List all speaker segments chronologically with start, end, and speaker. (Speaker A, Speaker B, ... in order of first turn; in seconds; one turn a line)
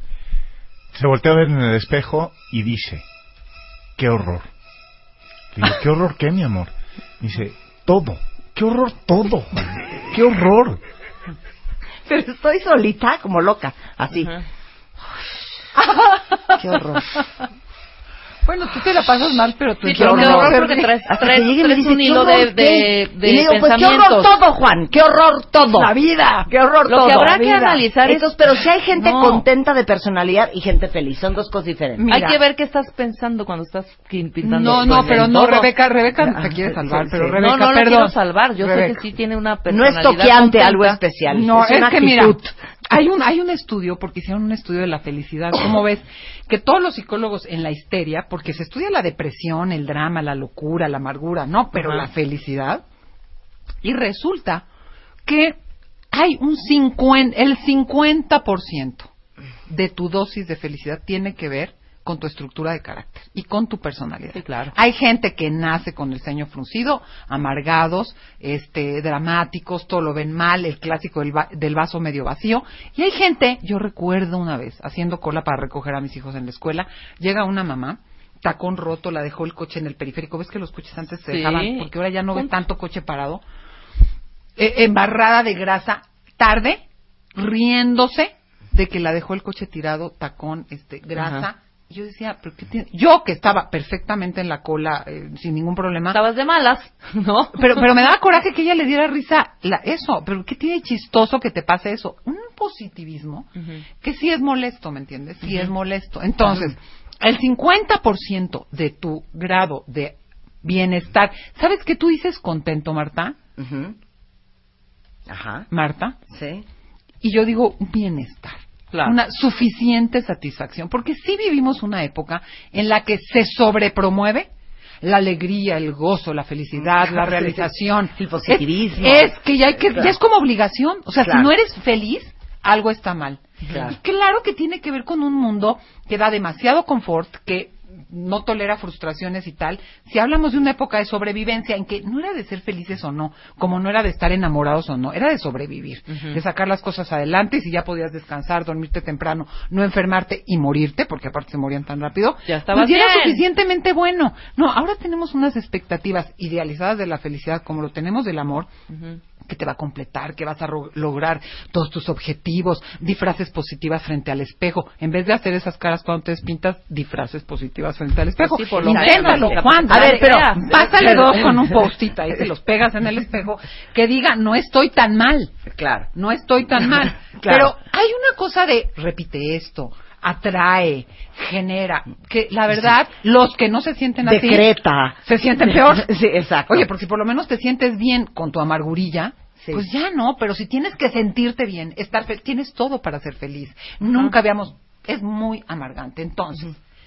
Speaker A: 0.9-3.0
Speaker A: 4.0-4.5
Speaker A: 5.5-10.8
Speaker B: 12.1-14.3
Speaker C: 15.8-16.6
Speaker B: 16.6-17.2
Speaker C: 18.5-20.9
Speaker D: 19.8-24.3
Speaker B: 19.9-25.9
Speaker C: 25.7-26.5
Speaker B: 26.5-27.4
Speaker D: 26.9-28.3
Speaker C: 27.1-27.8
Speaker B: 28.1-32.1
Speaker C: 29.0-29.4
Speaker C: 32.0-32.4
Speaker D: 32.1-35.7
Speaker C: 34.4-39.0
Speaker B: 34.9-35.2
Speaker B: 36.2-37.4
Speaker D: 37.4-41.0
Speaker B: 39.7-42.5
Speaker C: 41.3-52.8
Speaker C: 53.8-54.6
Speaker C: 55.3-55.6
Speaker C: 56.1-59.1
Speaker C: 59.7-83.4
Speaker D: 64.3-64.7
Speaker D: 81.3-82.6
Speaker C: 84.6-86.8
Speaker C: 87.4-96.2
Speaker D: 91.2-91.5
Speaker D: 96.1-97.9
Speaker C: 97.5-103.5
Speaker D: 103.6-103.8
Speaker C: 104.0-113.4
Speaker B: 113.6-114.0
Speaker B: 115.3-115.7
Speaker C: 115.7-116.2
Speaker B: 116.3-116.7
Speaker C: 117.2-124.5
Speaker C: 125.0-158.7
Speaker B: 126.8-129.3
Speaker B: 129.9-130.2
Speaker B: 131.2-131.5
Speaker B: 133.7-133.9
Speaker D: 146.1-146.4
Speaker D: 152.5-153.4
Speaker D: 158.9-159.2
Speaker C: 159.5-175.5
Speaker D: 168.4-171.1
Speaker B: 168.8-171.8
Speaker B: 175.7-176.1
Speaker C: 176.2-184.7
Speaker B: 177.4-177.7
Speaker B: 184.2-186.9
Speaker C: 185.3-186.1
Speaker C: 186.7-196.7
Speaker B: 189.6-189.9